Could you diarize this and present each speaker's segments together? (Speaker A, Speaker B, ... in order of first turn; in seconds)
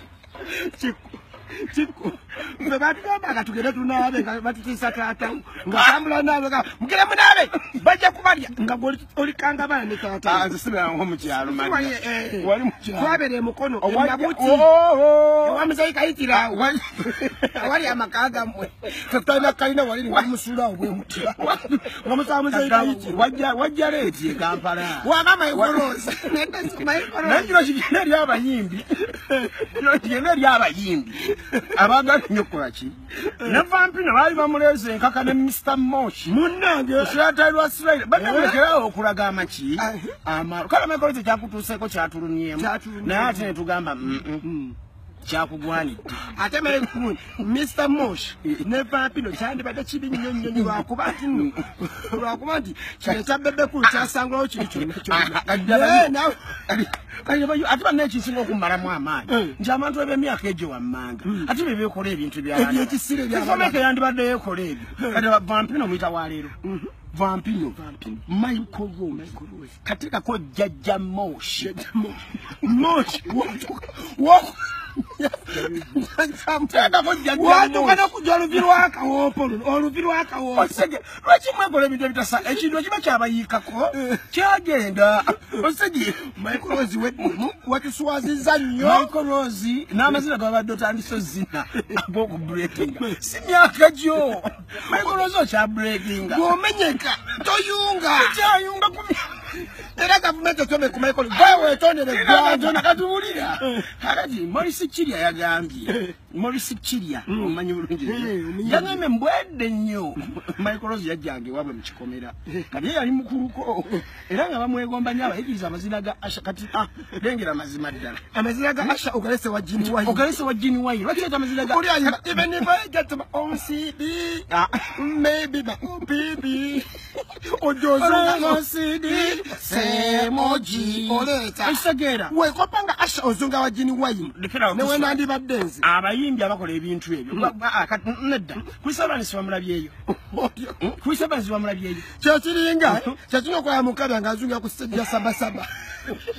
Speaker A: 0.4-10.5, 11.4-14.7, 15.4-23.2, 24.9-27.6, 29.1-29.6, 31.3-31.7, 36.2-37.1, 38.1-38.6, 39.8-40.2, 42.5-43.5, 44.4-44.8, 46.3-56.6, 59.3-59.6, 61.2-61.5, 62.5-63.8, 66.6-66.9, 67.8-68.2, 69.1-69.7, 71.6-80.8, 86.3-89.1, 94.9-95.2, 96.2-98.4, 99.6-102.9, 107.3-109.0, 118.3-120.3, 121.4-135.9, 140.1-140.9, 142.2-145.7
Speaker B: 10.2-13.2, 13.8-15.7, 16.3-17.9, 20.0-20.3, 20.9-26.1, 27.2-29.1, 29.6-36.3, 37.0-44.4, 45.2-46.4, 50.3-51.7, 53.0-66.5, 67.1-71.7, 72.6-73.5, 75.5-75.9, 76.7-78.7, 80.5-86.4, 88.8-96.5, 98.0-99.5, 101.3-118.2, 119.8-122.5, 124.5-124.8, 127.9-132.3, 134.2-135.2, 135.8-139.9, 140.8-142.1, 142.8-143.2